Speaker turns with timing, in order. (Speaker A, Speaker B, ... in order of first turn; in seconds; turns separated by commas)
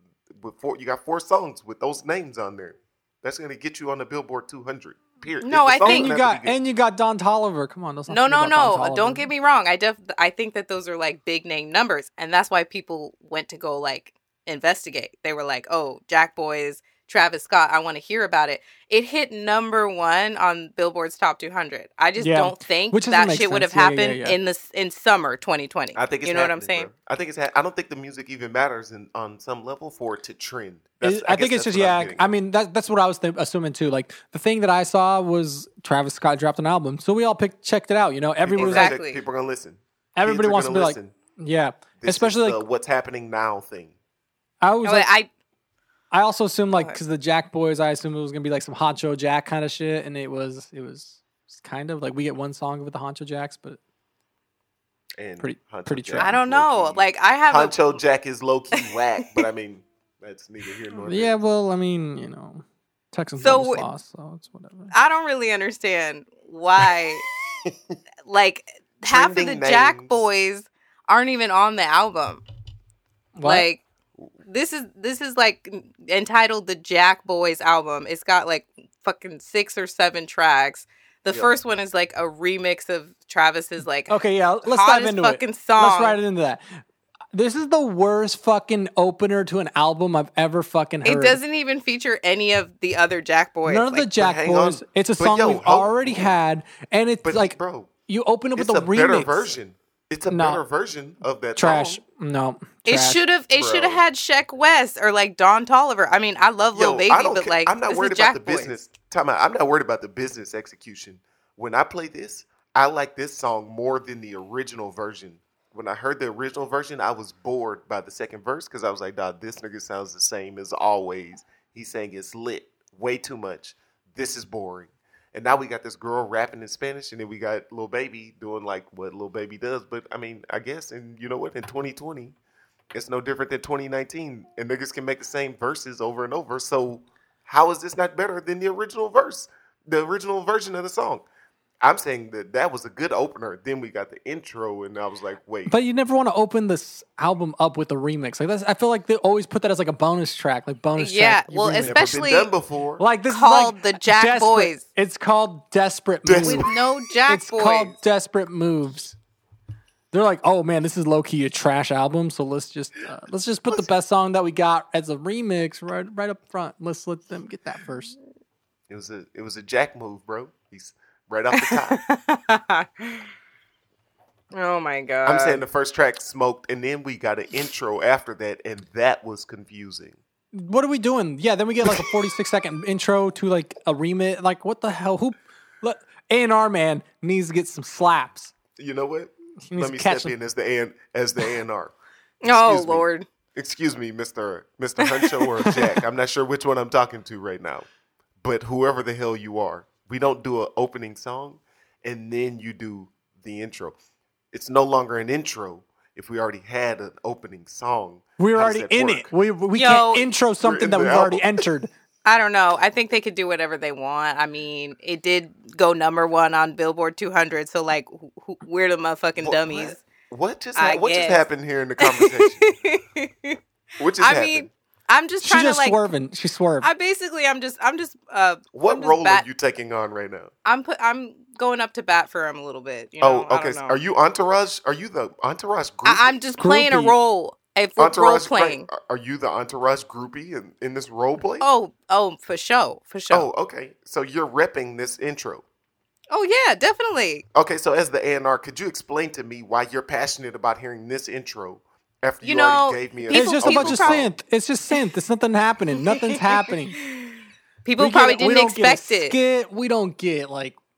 Speaker A: 0.4-6.5, Speaker B: 5.4-6.1, Speaker C: 5.8-9.3, Speaker B: 8.1-26.9, Speaker C: 22.2-24.4, Speaker A: 25.9-32.3, Speaker C: 31.0-38.9, Speaker A: 38.4-41.1, Speaker B: 38.6-39.2, Speaker C: 40.1-42.6, Speaker A: 42.0-43.9, Speaker C: 44.6-45.1, Speaker B: 44.8-45.3, Speaker C: 46.1-53.8, Speaker B: 46.7-47.0, Speaker A: 55.2-61.4, Speaker C: 55.4-56.3, Speaker B: 56.2-58.0, Speaker B: 58.8-59.4, Speaker C: 61.0-64.9, Speaker B: 63.4-63.8, Speaker B: 64.9-67.2, Speaker B: 68.2-72.4, Speaker A: 69.0-70.2, Speaker C: 73.3-73.7, Speaker B: 73.4-73.8, Speaker B: 74.5-86.2, Speaker A: 81.3-81.5, Speaker C: 84.1-86.6, Speaker C: 87.3-91.4, Speaker B: 91.0-94.1, Speaker C: 93.7-99.5, Speaker A: 94.2-96.4, Speaker A: 97.2-97.9, Speaker A: 98.5-102.0, Speaker C: 100.3-100.6, Speaker C: 101.5-103.2, Speaker B: 102.8-108.7, Speaker A: 103.5-104.0, Speaker A: 106.7-132.3, Speaker A: 132.9-141.2, Speaker A: 141.8-145.7, Speaker C: 145.7-152.0, Speaker B: 151.0-152.5, Speaker A: 151.8-153.0, Speaker C: 153.0-156.7, Speaker B: 153.3-154.8, Speaker A: 156.2-156.8, Speaker B: 156.4-157.9, Speaker C: 157.3-159.2, Speaker C: 160.1-168.2, Speaker A: 168.9-172.0, Speaker B: 171.5-173.3, Speaker B: 174.5-175.6, Speaker A: 175.2-180.2, Speaker C: 180.5-188.5, Speaker A: 188.8-197.9, Speaker C: 189.7-190.3, Speaker B: 192.4-193.2, Speaker B: 195.2-195.4, Speaker A: 198.4-204.0, Speaker A: 204.5-209.3, Speaker C: 208.4-211.9, Speaker B: 209.7-210.3, Speaker A: 210.6-211.7, Speaker B: 212.2-220.0, Speaker A: 219.4-222.8, Speaker B: 220.8-221.4, Speaker B: 222.0-223.6, Speaker A: 224.0-224.7, Speaker B: 224.2-226.0, Speaker C: 225.4-226.9, Speaker B: 226.8-229.4, Speaker A: 228.7-230.5, Speaker B: 230.6-234.0, Speaker A: 233.2-236.3, Speaker B: 236.0-238.9, Speaker C: 236.6-237.1, Speaker A: 238.0-241.7, Speaker B: 241.6-243.5, Speaker A: 243.3-245.6, Speaker B: 246.3-247.4, Speaker A: 247.5-254.3, Speaker B: 252.4-254.2, Speaker C: 253.3-257.0, Speaker B: 256.1-259.3, Speaker C: 258.0-260.8